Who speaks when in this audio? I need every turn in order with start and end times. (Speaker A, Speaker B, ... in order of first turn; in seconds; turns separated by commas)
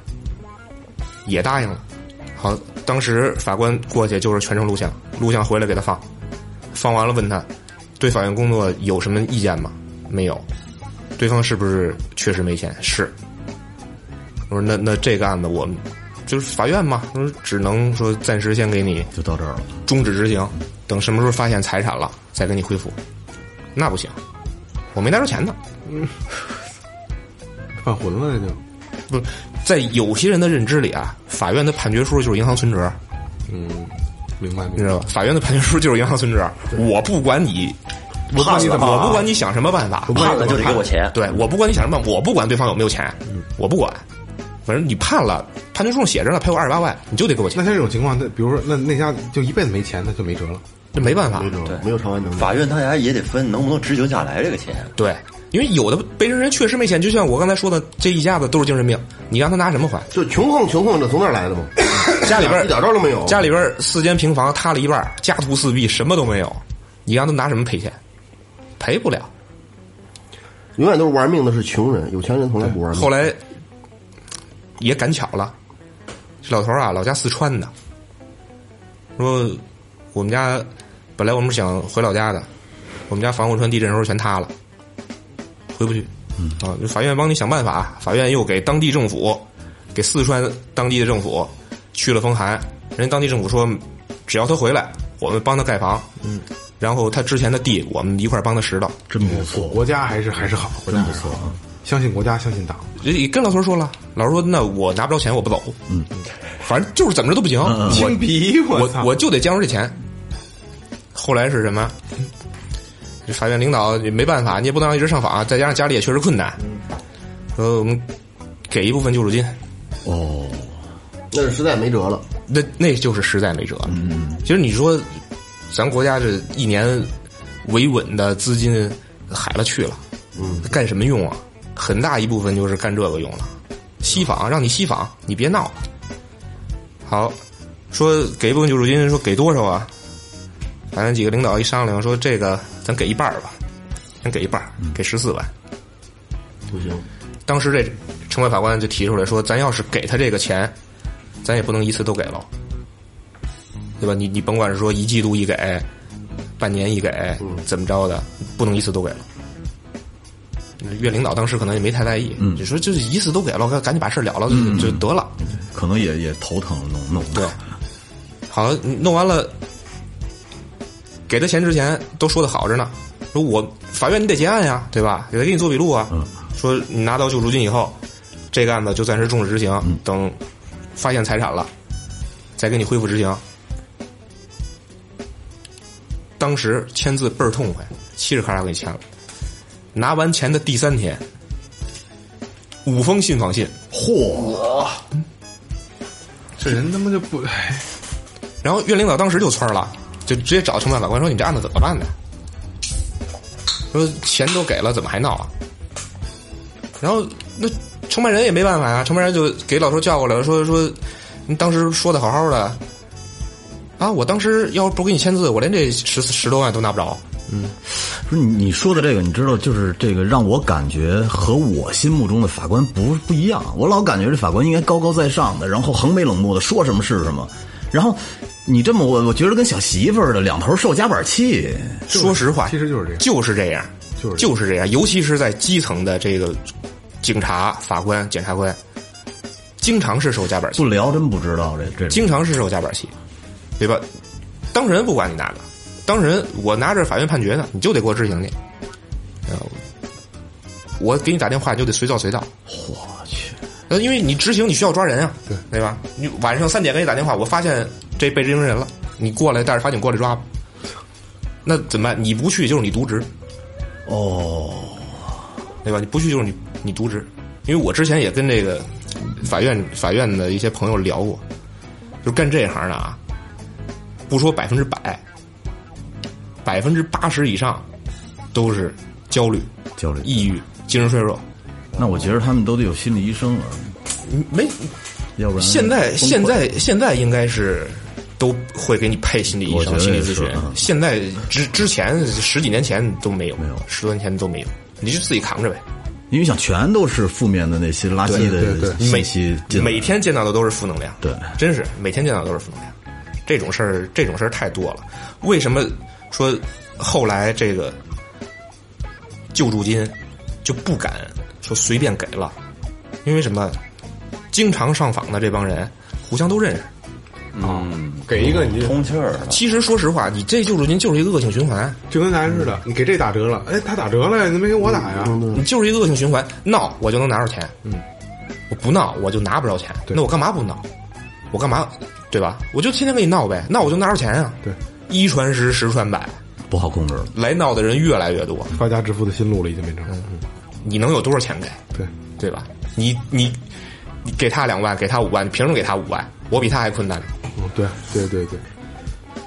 Speaker A: 1.3-1.8, Speaker A: 2.4-6.0, Speaker A: 6.7-7.5, Speaker A: 8.0-10.4, Speaker A: 11.2-13.1, Speaker A: 14.5-19.1, Speaker B: 19.1-19.8, Speaker A: 19.9-23.0, Speaker A: 23.8-24.2, Speaker A: 24.9-25.6, Speaker C: 27.8-28.6, Speaker A: 29.1-33.0, Speaker C: 33.5-35.0, Speaker A: 34.8-37.8, Speaker A: 38.3-40.3, Speaker C: 38.3-39.3, Speaker D: 38.7-39.2, Speaker C: 40.1-40.9, Speaker D: 40.1-41.2, Speaker A: 41.1-44.0, Speaker A: 44.7-47.6, Speaker C: 47.5-50.6, Speaker A: 50.9-51.5, Speaker E: 51.2-52.6, Speaker D: 51.7-54.9, Speaker A: 55.0-60.1, Speaker E: 60.1-63.4, Speaker A: 62.1-68.0, Speaker A: 68.8-69.3, Speaker E: 70.8-73.3, Speaker A: 72.9-73.4, Speaker A: 74.8-75.5, Speaker A: 76.4-77.7, Speaker A: 79.2-79.6, Speaker A: 80.1-82.5, Speaker A: 83.1-84.5, Speaker A: 85.8-96.1, Speaker A: 96.8-99.0, Speaker B: 99.1-100.0, Speaker C: 99.2-102.9, Speaker B: 100.9-101.6, Speaker A: 103.0-105.8, Speaker A: 106.6-110.0, Speaker B: 107.6-108.2, Speaker C: 107.8-109.1, Speaker A: 111.1-112.0, Speaker A: 113.3-116.6, Speaker A: 117.6-118.1, Speaker A: 118.7-119.5, Speaker B: 120.0-120.8, Speaker E: 121.3-122.2, Speaker A: 122.5-125.1, Speaker B: 123.9-124.4, Speaker A: 125.7-127.1, Speaker A: 127.6-130.0, Speaker E: 130.4-130.7, Speaker A: 130.6-135.8, Speaker A: 137.1-137.4, Speaker A: 137.9-139.9, Speaker A: 140.9-143.6, Speaker A: 144.2-145.5, Speaker E: 146.7-147.1, Speaker A: 147.5-150.7, Speaker A: 151.4-152.5, Speaker A: 154.0-155.9, Speaker A: 156.6-159.2, Speaker A: 160.8-165.3, Speaker B: 162.4-162.7, Speaker B: 164.5-167.6, Speaker A: 168.5-169.5, Speaker A: 171.3-178.0, Speaker A: 178.5-180.4, Speaker A: 181.0-181.7, Speaker A: 182.6-183.4, Speaker A: 186.4-189.0, Speaker A: 189.9-191.2, Speaker A: 192.8-193.7, Speaker B: 193.9-195.0, Speaker C: 196.6-197.9, Speaker A: 198.6-202.1, Speaker A: 203.9-205.5, Speaker A: 207.0-212.8, Speaker A: 214.0-217.2, Speaker B: 218.0-232.1, Speaker C: 232.1-233.2, Speaker A: 232.1-236.6, Speaker C: 234.2-234.5, Speaker A: 237.2-238.8, Speaker A: 239.8-240.8, Speaker B: 240.8-242.3, Speaker A: 242.1-243.1, Speaker A: 243.8-244.1, Speaker A: 244.7-248.6, Speaker A: 249.5-249.8, Speaker A: 251.0-252.5, Speaker B: 252.7-253.6, Speaker A: 253.9-260.4, Speaker A: 261.6-263.3, Speaker B: 264.1-265.2, Speaker A: 265.8-271.4, Speaker A: 272.2-273.2, Speaker A: 274.3-275.2, Speaker A: 276.6-277.9, Speaker A: 278.5-279.7, Speaker B: 280.0-280.4, Speaker A: 280.2-281.4, Speaker B: 282.0-284.0, Speaker A: 284.2-284.9, Speaker B: 285.4-286.7, Speaker A: 285.6-295.8, Speaker B: 289.7-290.8, Speaker B: 296.3-300.1, Speaker A: 298.3-302.9, Speaker C: 298.3-299.0, Speaker B: 301.2-301.5, Speaker A: 303.5-308.0, Speaker A: 309.5-312.6, Speaker A: 313.2-313.8, Speaker A: 314.5-316.9, Speaker D: 317.5-319.6, Speaker C: 317.6-319.0, Speaker A: 319.5-322.0, Speaker C: 322.1-325.4, Speaker E: 324.8-325.6, Speaker A: 325.5-327.7, Speaker A: 328.7-330.8, Speaker A: 331.5-336.4, Speaker B: 336.7-337.3, Speaker A: 337.3-338.8, Speaker C: 338.7-340.4, Speaker A: 340.8-341.8, Speaker A: 342.4-343.6, Speaker A: 344.2-347.3, Speaker C: 347.6-348.6